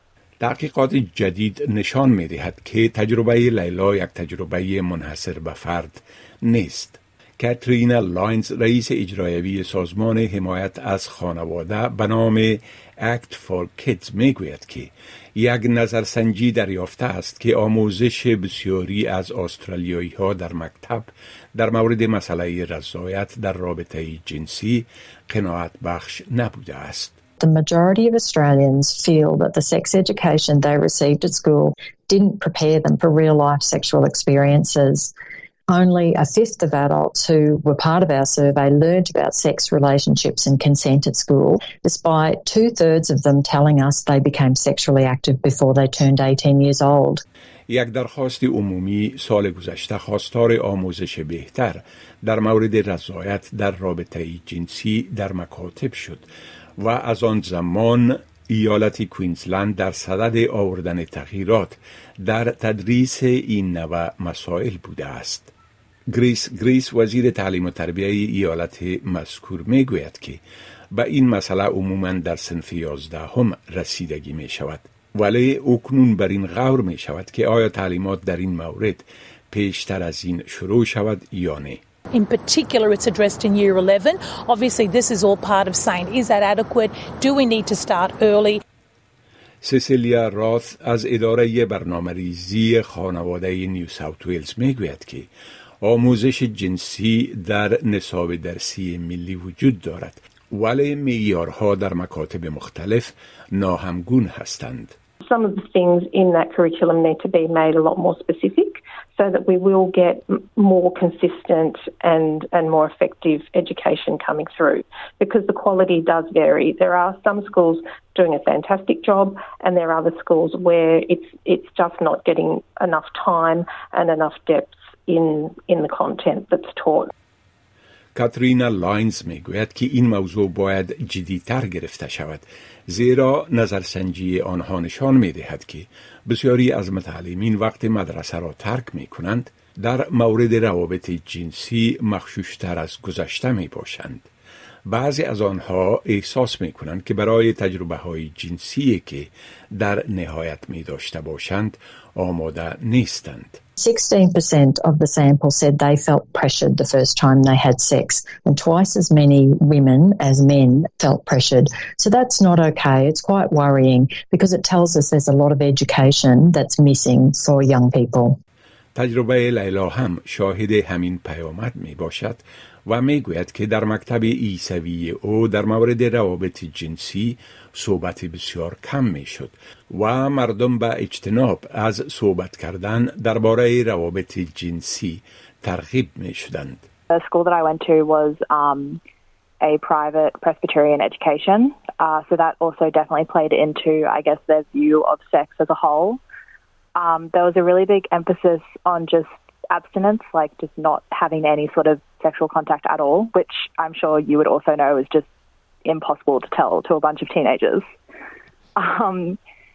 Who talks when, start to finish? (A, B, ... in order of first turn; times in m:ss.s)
0:00.4-0:27.2 A
0:27.4-0:35.1 B
0:35.7-0:47.2 B
0:47.7-0:56.3 A
0:56.8-1:05.5 A
1:06.1-1:10.4 A
1:10.9-1:21.8 A
1:22.1-1:28.6 C
1:29.6-1:35.3 A
1:35.8-1:45.0 A
1:45.3-2:07.1 D
2:08.2-2:24.3 A
2:24.9-2:33.6 A
2:33.8-2:48.4 B
2:49.0-3:06.8 A
3:07.1-3:09.0 E
3:09.6-3:16.2 E
3:17.0-3:25.3 E
3:25.8-3:27.8 E
3:28.8-3:29.4 E